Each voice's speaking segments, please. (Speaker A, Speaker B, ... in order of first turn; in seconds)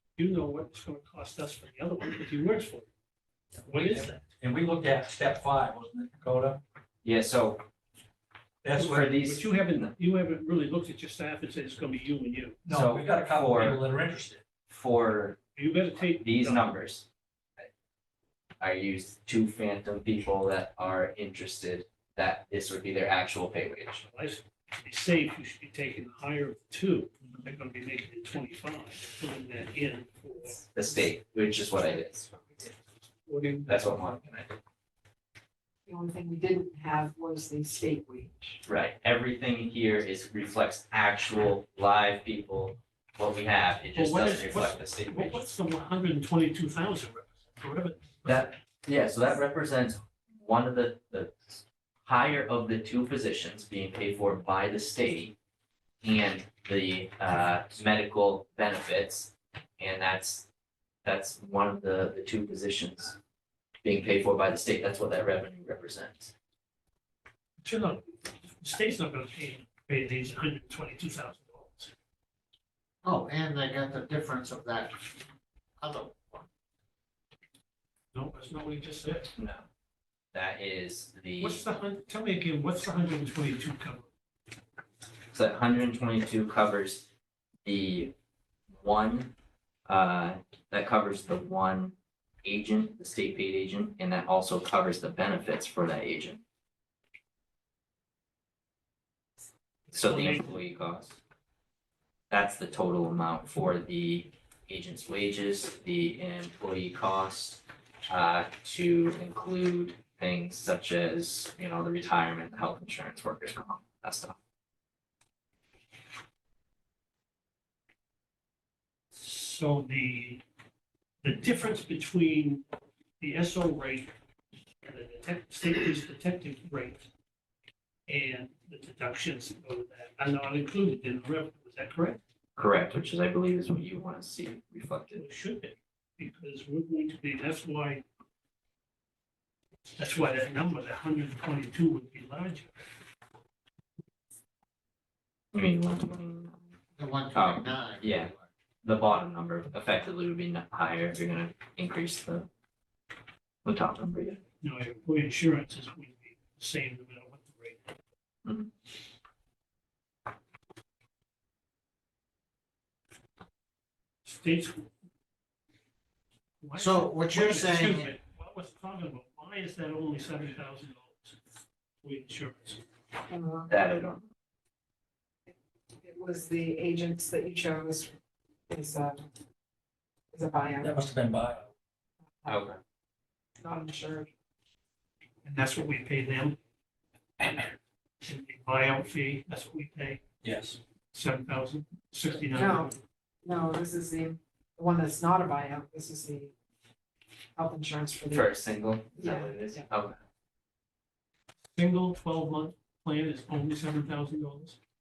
Speaker A: 0.2-2.9, 3.6-4.2, 8.8-12.6, 15.5-16.7, 24.0-30.6, 33.3-33.8, 43.9-48.5, 67.6-71.9, 78.1-79.3, 81.4-84.1, 99.9-100.6, 119.1-120.4, 121.2-122.6, 123.2-124.1, 124.8-127.1, 128.1-132.2, 135.1-138.0, 140.0-142.7, 154.6-157.9, 164.2-164.9, 166.6-171.4, 172.0-172.8, 185.4-186.6, 188.2-190.2, 191.1-193.0, 201.7-204.8
Speaker B: 3.7-6.6, 8.6-9.2, 12.6-14.4, 180.8-181.7, 190.4-190.8
Speaker C: 7.0-7.6, 8.8-9.9, 12.7-13.8, 14.7-15.4, 16.2-17.1, 18.6-24.0, 30.7-32.3, 33.7-34.5, 38.6-45.4, 48.2-55.4, 56.0-60.5, 61.0-63.2, 63.8-66.3, 79.3-79.7, 80.3-81.6, 85.3-87.1, 87.6-88.1, 88.7-89.3, 89.9-96.4, 99.9-101.2, 102.3-114.4, 132.6-135.2, 145.5-146.6, 147.3-148.3, 148.8-152.5, 153.6-154.4, 158.4-158.7, 173.7-174.3, 182.5-182.8, 198.3-200.2
Speaker D: 31.8-32.7, 35.9-38.6, 173.3-173.7, 176.0-178.1, 178.7-179.2, 180.3-181.0, 183.6-184.3, 192.5-192.9, 193.4-196.5, 197.6-198.5, 199.2-199.8
Speaker E: 73.0-75.0, 75.8-76.5, 147.0-148.3, 166.8-168.1